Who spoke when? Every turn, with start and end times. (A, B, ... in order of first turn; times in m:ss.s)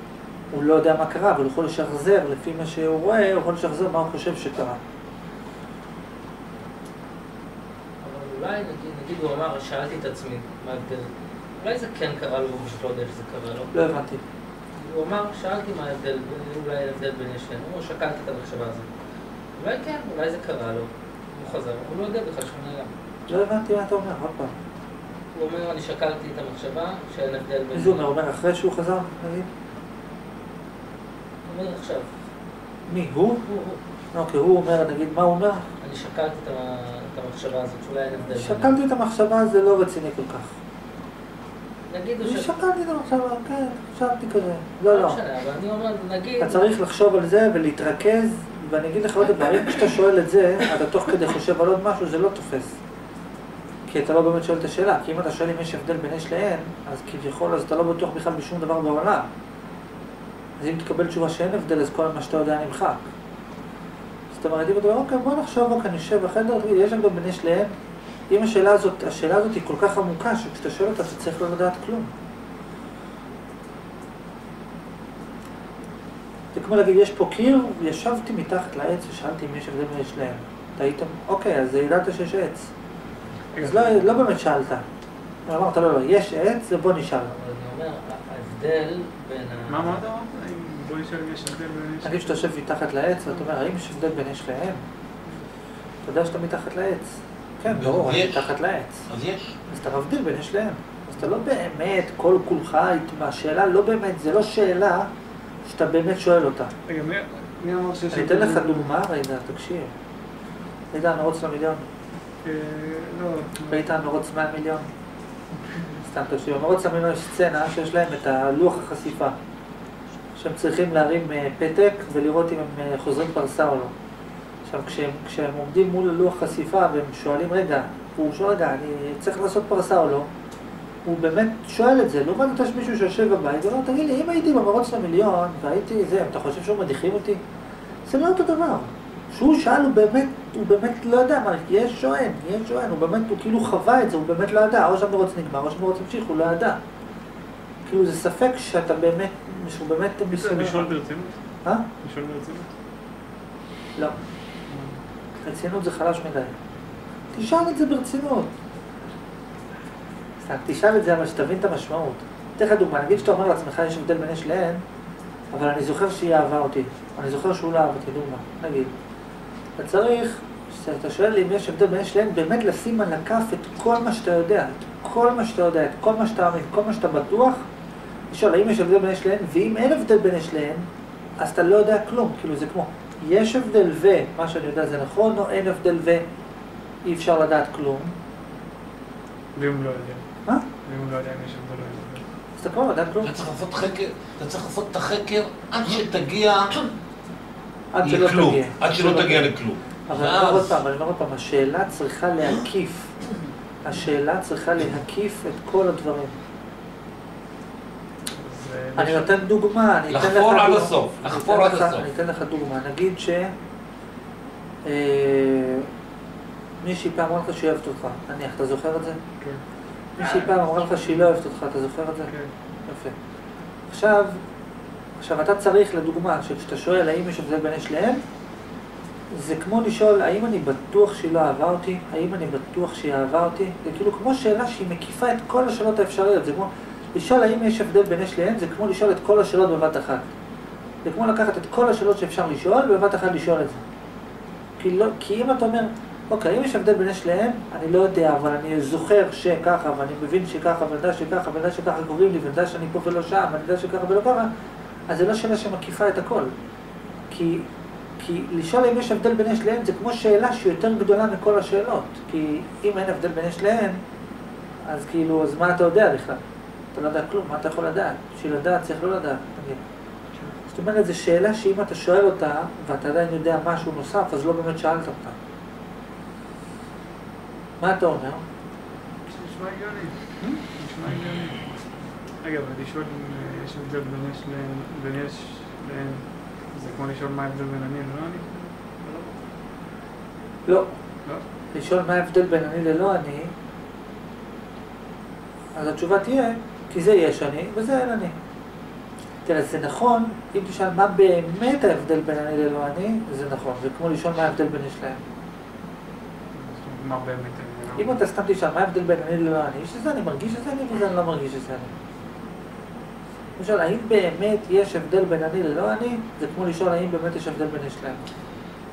0:00.5-0:04.8 A
0:08.0-0:13.9 B
0:13.7-0:14.2 A
0:14.8-0:18.9 B
0:19.6-0:22.9 B
0:23.3-0:24.6 A
0:25.3-0:28.1 B
0:27.7-0:29.5 A
0:31.5-0:32.1 B
0:32.9-0:33.4 A
0:33.4-0:33.8 B
0:34.1-0:35.6 A
0:35.8-0:38.8 B
0:38.3-0:40.5 A
0:41.9-0:42.6 B
0:42.2-0:45.2 A
0:44.9-0:46.7 B
0:46.4-0:52.8 A
0:53.9-0:59.3 A
1:00.6-1:03.1 A
1:04.3-1:07.7 A
1:08.3-1:12.1 A
1:16.5-1:22.7 A
1:23.5-1:24.2 C
1:23.6-1:24.8 A
1:25.5-1:27.3 A
1:27.3-1:30.0 B
1:29.7-1:32.4 C
1:32.0-1:34.8 A
1:36.0-1:39.0 A
1:37.6-1:38.5 D
1:39.1-1:39.6 D
1:39.7-1:45.1 A
1:45.7-1:46.7 A
1:46.9-1:49.0 C
1:48.1-1:49.9 A
1:50.9-1:51.8 A
1:52.4-1:53.8 C
1:53.7-1:54.9 A
1:56.0-1:59.4 A
2:00.4-2:03.9 A
2:04.6-2:10.3 A
2:11.0-2:17.4 A
2:18.1-2:26.8 A
2:27.9-2:31.0 A
2:30.3-2:31.4 C
2:32.0-2:32.7 C
2:34.7-2:35.0 C
2:35.4-2:36.6 A
2:37.3-2:38.5 A
2:40.4-2:44.8 A
2:45.5-2:48.9 A
2:49.8-2:57.6 A
2:58.3-3:00.9 A
3:01.4-3:06.3 A
3:07.0-3:08.2 A
3:09.6-3:10.2 C
3:10.8-3:12.2 C
3:12.6-3:13.4 A
3:13.2-3:16.8 D
3:17.9-3:19.5 A
3:18.0-3:20.8 D
3:20.1-3:23.1 A
3:23.8-3:26.4 A
3:28.3-3:29.4 C
3:29.0-3:33.5 A
3:30.1-3:32.1 D
3:34.8-3:35.9 A
3:36.8-3:39.2 A
3:40.2-3:42.3 A
3:40.2-3:41.3 C
3:42.3-3:42.5 C
3:42.9-3:43.2 A
3:43.9-3:44.4 A
3:45.2-3:48.2 A
3:49.3-4:00.3 A
4:01.0-4:03.8 A
4:04.8-4:14.5 A
4:15.1-4:16.5 A
4:17.3-4:17.7 A
4:18.2-4:24.0 A
4:24.9-4:26.4 A
4:26.9-4:29.8 A
4:30.7-4:35.4 A
4:37.8-4:38.4 A
4:39.3-4:41.9 C
4:42.4-4:49.4 C
4:50.7-4:50.9 A
4:51.7-4:53.5 A
4:55.8-4:58.3 A
4:59.4-5:05.2 A
5:06.5-5:08.2 C
5:08.0-5:11.9 A
5:13.6-5:18.2 A